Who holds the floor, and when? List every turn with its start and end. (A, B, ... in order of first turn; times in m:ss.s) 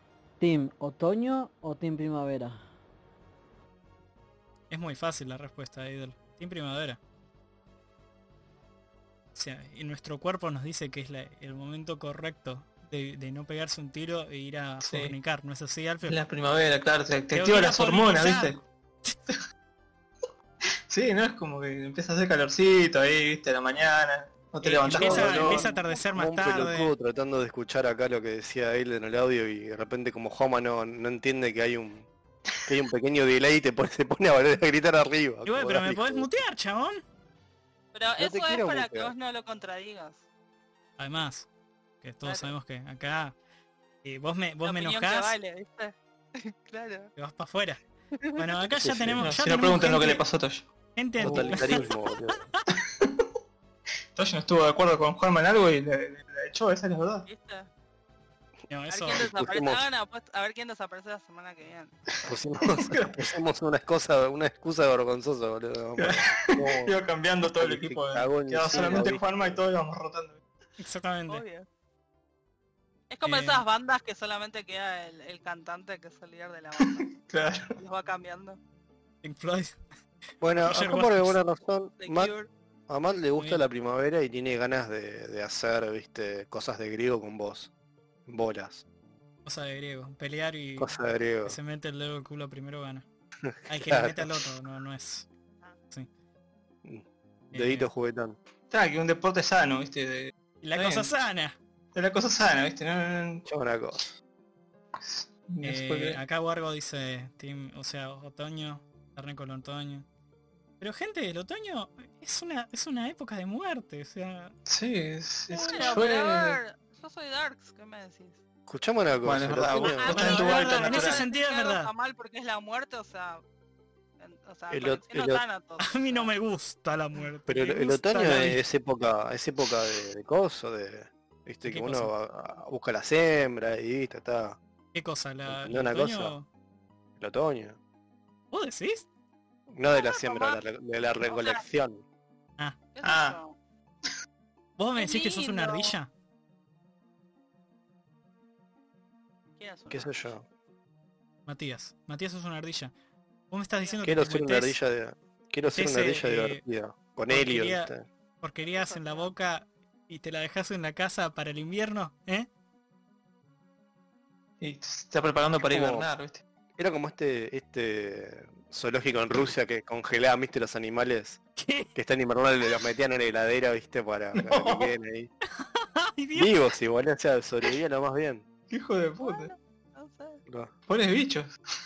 0:00.4-0:02.6 A
0:04.7-0:07.0 B
0:09.4-0:16.2 B
0:14.8-0:15.2 C
0:16.1-0:18.6 C
0:17.3-0:19.2 B
0:20.9-0:25.6 C
0:24.6-0:26.9 B
0:24.9-0:32.1 D
0:25.1-0:26.1 E
0:32.6-0:36.3 D
0:35.4-0:37.0 B
0:37.9-0:40.2 E
0:38.2-0:39.1 D
0:41.0-0:41.5 B
0:42.0-0:43.4 B
0:42.2-0:42.5 E
0:44.0-0:45.3 B
0:44.6-0:47.1 E
0:47.2-0:47.8 B
0:48.4-0:50.2 B
0:48.8-0:49.3 D
0:49.2-0:50.7 C
0:51.0-0:51.9 B
0:51.2-0:52.4 D
0:51.2-0:51.7 C
0:52.8-0:53.3 C
0:54.2-0:57.3 C
0:57.3-0:57.7 E
0:58.7-0:59.3 B
0:58.9-1:02.0 E
0:59.2-0:59.8 D
1:02.3-1:06.9 D
1:02.8-1:03.1 C
1:06.0-1:10.4 C
1:07.6-1:09.6 D
1:10.8-1:11.4 B
1:11.3-1:11.7 E
1:13.1-1:17.1 E
1:13.2-1:13.6 B
1:16.8-1:17.8 C
1:17.8-1:18.6 E
1:19.2-1:19.8 B
1:20.4-1:22.3 D
1:20.6-1:21.4 B
1:22.0-1:22.5 E
1:22.9-1:27.7 D
1:23.4-1:23.6 B
1:28.3-1:28.8 D
1:29.4-1:33.0 B
1:30.8-1:31.6 D
1:33.4-1:34.3 D
1:33.7-1:35.3 B
1:36.8-1:38.4 D
1:37.5-1:37.9 B
1:38.7-1:41.1 C
1:40.6-1:41.6 B
1:42.0-1:43.5 C
1:43.5-1:44.1 D
1:45.0-1:46.2 C
1:45.6-1:50.1 B
1:50.8-1:54.5 B
1:54.7-1:56.6 C
1:55.5-1:58.4 E
1:55.6-1:56.1 B
1:58.7-2:00.3 D
1:59.2-2:01.2 C
1:59.8-2:03.4 E
2:00.1-2:01.9 B
2:04.2-2:06.3 E
2:04.7-2:05.4 D
2:05.8-2:08.6 B
2:07.5-2:14.6 D
2:11.7-2:12.1 B
2:14.9-2:16.5 B
2:15.5-2:16.4 D
2:17.2-2:17.8 D
2:18.5-2:19.1 B
2:19.7-2:22.0 D
2:19.9-2:20.6 E
2:21.2-2:21.6 E
2:22.9-2:23.6 E
2:23.0-2:23.4 C
2:24.8-2:26.1 B
2:25.0-2:26.0 E
2:29.6-2:30.3 E
2:29.9-2:30.4 D
2:31.5-2:32.9 B
2:33.5-2:34.8 B
2:34.0-2:38.0 D
2:35.6-2:36.6 B
2:37.3-2:42.5 B
2:38.7-2:39.3 E
2:44.6-2:46.4 C
2:45.6-2:46.1 D
2:46.8-2:51.4 D
2:51.6-2:51.9 B
2:52.0-2:55.3 D
2:54.4-2:54.9 C
2:55.6-2:56.6 B
2:56.4-2:58.4 D
2:58.7-2:59.5 C
2:59.2-3:00.4 E
3:00.9-3:01.5 C